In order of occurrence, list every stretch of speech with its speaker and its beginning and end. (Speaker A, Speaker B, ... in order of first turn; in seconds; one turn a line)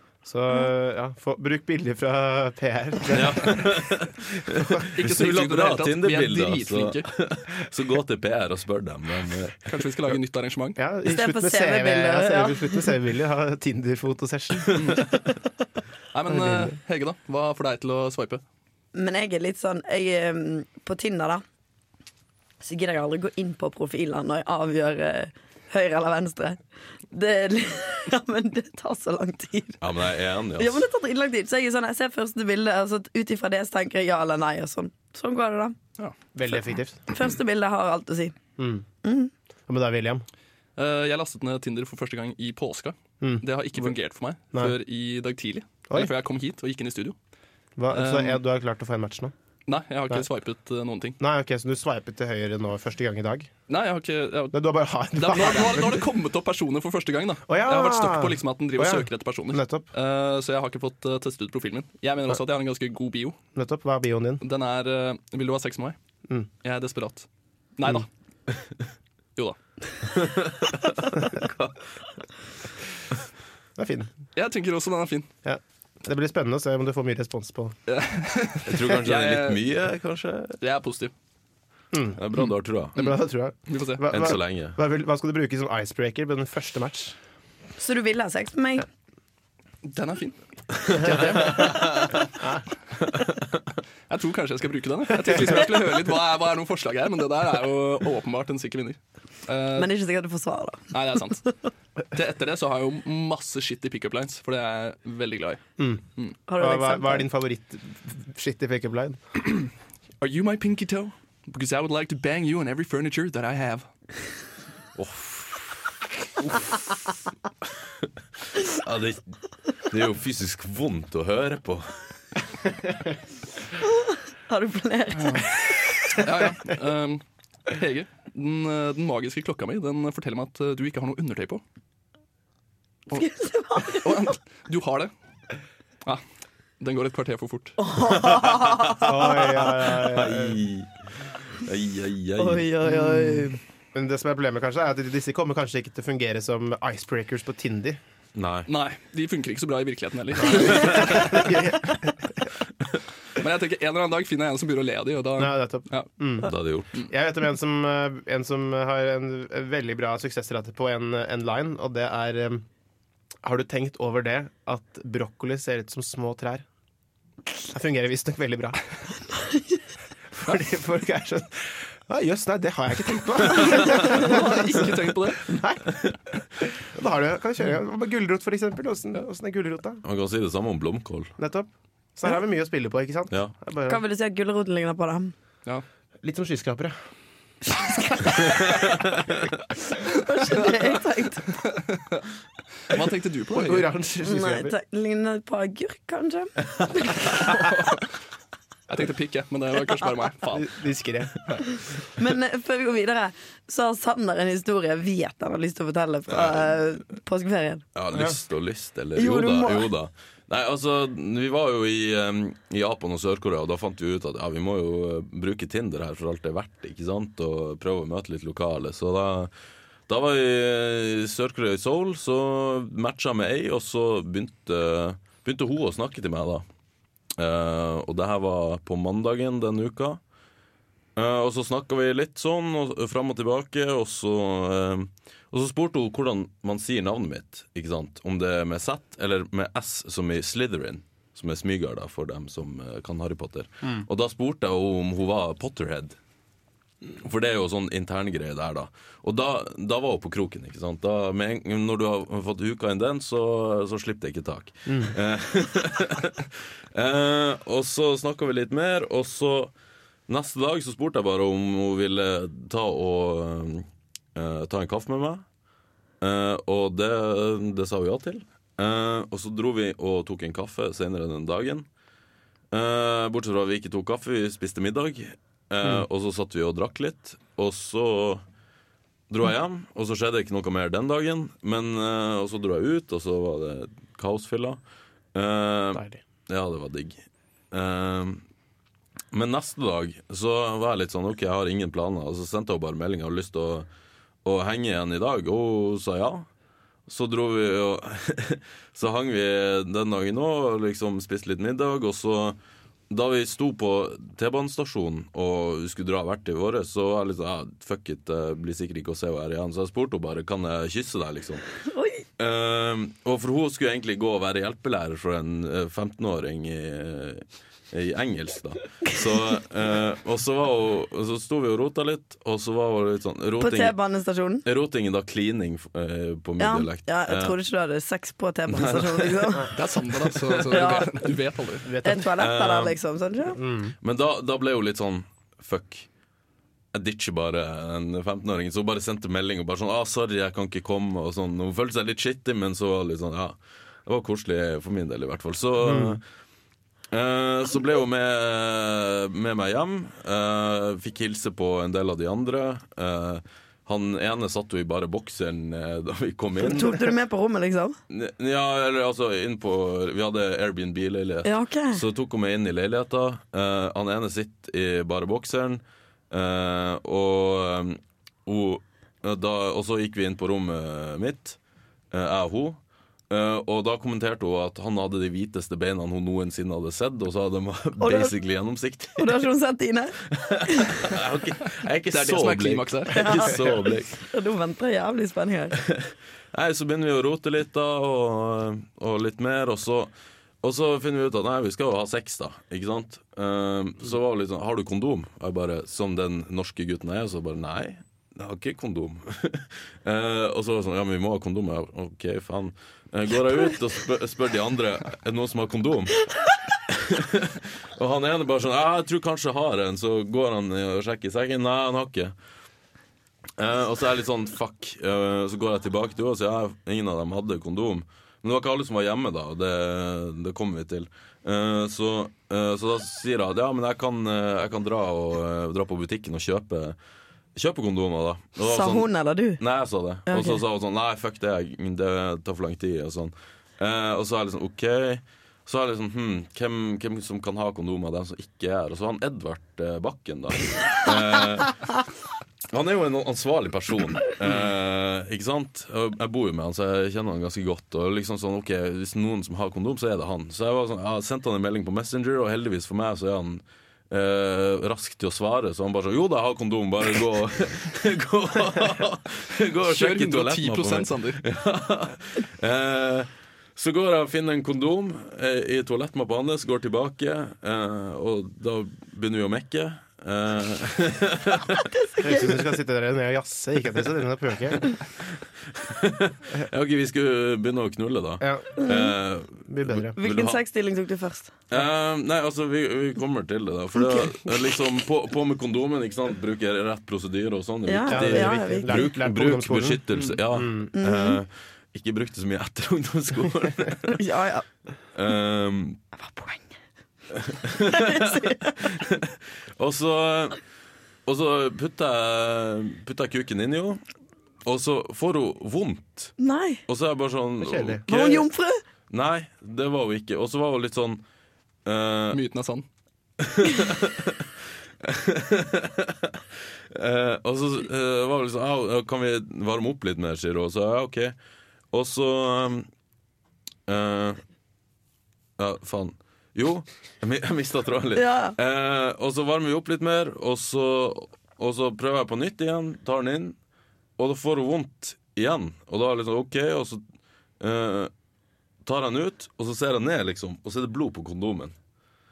Speaker A: 0.2-3.9
Speaker B: 3.1-9.7
Speaker A: 4.5-4.8
Speaker C: 4.9-7.1
Speaker C: 9.7-10.8
Speaker A: 10.8-15.2
Speaker D: 11.1-12.9
Speaker C: 14.8-15.2
Speaker C: 16.1-18.4
Speaker A: 16.3-16.7
Speaker D: 18.9-21.4
Speaker D: 22.6-26.6
Speaker D: 27.1-29.8
Speaker B: 29.8-30.9
Speaker D: 30.6-35.8
Speaker A: 36.3-37.0
Speaker D: 36.5-38.4
Speaker A: 38.6-38.9
Speaker D: 39.0-39.3
Speaker A: 39.7-40.2
Speaker C: 40.8-47.1
Speaker A: 47.8-49.3
Speaker C: 47.9-48.4
Speaker C: 49.7-51.2
Speaker A: 51.2-53.5
Speaker C: 53.7-63.4
Speaker A: 54.5-56.0
Speaker A: 57.5-59.9
Speaker A: 63.5-64.4
Speaker C: 64.4-66.0
Speaker C: 66.6-68.1
Speaker B: 70.1-71.8
Speaker A: 73.8-74.1
Speaker C: 74.4-75.3
Speaker A: 75.5-77.8
Speaker C: 77.9-79.6
Speaker B: 78.7-80.6
Speaker C: 80.6-81.1
Speaker A: 81.9-82.2
Speaker B: 82.2-83.0
Speaker A: 83.0-87.2
Speaker C: 83.0-84.1
Speaker B: 84.1-84.8
Speaker D: 87.8-88.9
Speaker C: 89.8-92.2
Speaker B: 90.9-92.2
Speaker B: 93.0-93.5
Speaker C: 94.1-99.9
Speaker D: 99.8-100.9
Speaker C: 100.9-101.5
Speaker C: 102.1-105.6
Speaker D: 106.5-107.3
Speaker A: 106.6-109.2
Speaker C: 110.2-113.9
Speaker B: 115.0-115.7
Speaker B: 118.6-119.3
Speaker B: 119.9-121.9
Speaker D: 124.5-125.9
Speaker C: 125.2-125.5
Speaker C: 126.1-131.6
Speaker D: 133.1-134.3
Speaker C: 133.9-135.1
Speaker C: 136.8-137.8
Speaker D: 137.8-139.1
Speaker B: 138.0-142.7
Speaker A: 139.0-140.6
Speaker D: 142.4-143.6
Speaker A: 142.8-148.0
Speaker B: 148.3-148.7
Speaker C: 148.7-151.7
Speaker A: 150.4-152.4
Speaker C: 153.3-156.1
Speaker A: 155.4-156.5
Speaker B: 156.4-156.9
Speaker A: 157.1-162.7
Speaker A: 163.4-166.7
Speaker A: 167.7-168.8
Speaker A: 170.3-176.1
Speaker C: 173.5-175.6
Speaker A: 176.6-180.0
Speaker B: 180.0-181.3
Speaker A: 181.4-184.0
Speaker D: 183.8-185.3
Speaker A: 186.2-186.9
Speaker B: 188.5-189.4
Speaker D: 190.0-191.6
Speaker C: 191.7-192.2
Speaker C: 192.9-193.9
Speaker A: 193.5-194.8
Speaker D: 194.2-197.5
Speaker C: 197.5-198.0
Speaker C: 198.9-200.7
Speaker A: 200.5-201.3
Speaker D: 202.2-207.8
Speaker B: 206.3-206.7
Speaker B: 207.9-219.5
Speaker D: 209.2-209.9
Speaker B: 220.1-226.7
Speaker B: 227.4-230.2
Speaker B: 231.2-246.2
Speaker B: 247.2-259.7
Speaker B: 260.3-265.4
Speaker B: 266.2-271.9
Speaker B: 272.7-278.4
Speaker B: 279.3-284.8
Speaker B: 285.3-288.4
Speaker B: 289.3-293.9
Speaker B: 294.4-296.5
Speaker B: 297.1-302.6
Speaker B: 303.1-311.7
Speaker D: 311.9-312.2
Speaker B: 312.4-324.0
Speaker D: 323.6-324.6
Speaker B: 324.6-327.6
Speaker D: 326.6-329.8
Speaker B: 328.7-329.6
Speaker C: 329.7-331.9
Speaker B: 330.3-330.8
Speaker D: 330.7-331.3
Speaker A: 331.8-332.3
Speaker D: 332.0-333.6
Speaker B: 332.3-332.9
Speaker A: 333.6-333.9
Speaker B: 334.0-336.1
Speaker B: 336.9-346.2
Speaker A: 345.8-346.2
Speaker B: 347.1-357.1
Speaker D: 356.6-358.0
Speaker B: 358.1-371.6
Speaker D: 361.4-362.0
Speaker B: 372.1-372.8
Speaker B: 373.3-379.4
Speaker D: 378.0-378.3
Speaker D: 379.2-381.1
Speaker B: 380.3-384.2
Speaker C: 382.1-383.5
Speaker D: 383.1-385.8
Speaker B: 385.8-390.1
Speaker B: 390.6-406.4
Speaker B: 406.9-412.3
Speaker B: 413.6-427.0
Speaker B: 427.6-442.0
Speaker D: 428.6-429.6
Speaker D: 430.3-430.6
Speaker B: 442.7-471.9
Speaker C: 459.8-461.4
Speaker D: 471.8-472.6
Speaker A: 472.2-474.8
Speaker B: 475.7-480.6
Speaker A: 478.4-478.8
Speaker D: 478.8-479.1
Speaker A: 479.7-480.2
Speaker D: 480.1-481.5
Speaker B: 481.7-494.3
Speaker D: 484.0-484.2
Speaker D: 487.9-489.1
Speaker A: 488.1-490.9
Speaker D: 490.9-491.4
Speaker D: 494.2-494.7
Speaker B: 495.1-496.0
Speaker D: 496.2-496.6
Speaker B: 497.3-500.6
Speaker D: 498.0-498.5
Speaker B: 501.3-504.0
Speaker B: 504.6-506.4
Speaker D: 506.4-506.8
Speaker B: 506.9-508.5
Speaker A: 507.6-508.0
Speaker D: 508.1-508.8
Speaker B: 509.1-511.2
Speaker B: 511.9-512.4
Speaker C: 512.3-512.9
Speaker B: 513.4-514.5
Speaker B: 515.0-521.4
Speaker B: 521.9-522.9
Speaker B: 523.9-524.4
Speaker B: 525.6-533.5
Speaker D: 528.1-528.5
Speaker B: 534.2-537.0
Speaker B: 537.6-538.1
Speaker B: 538.8-541.8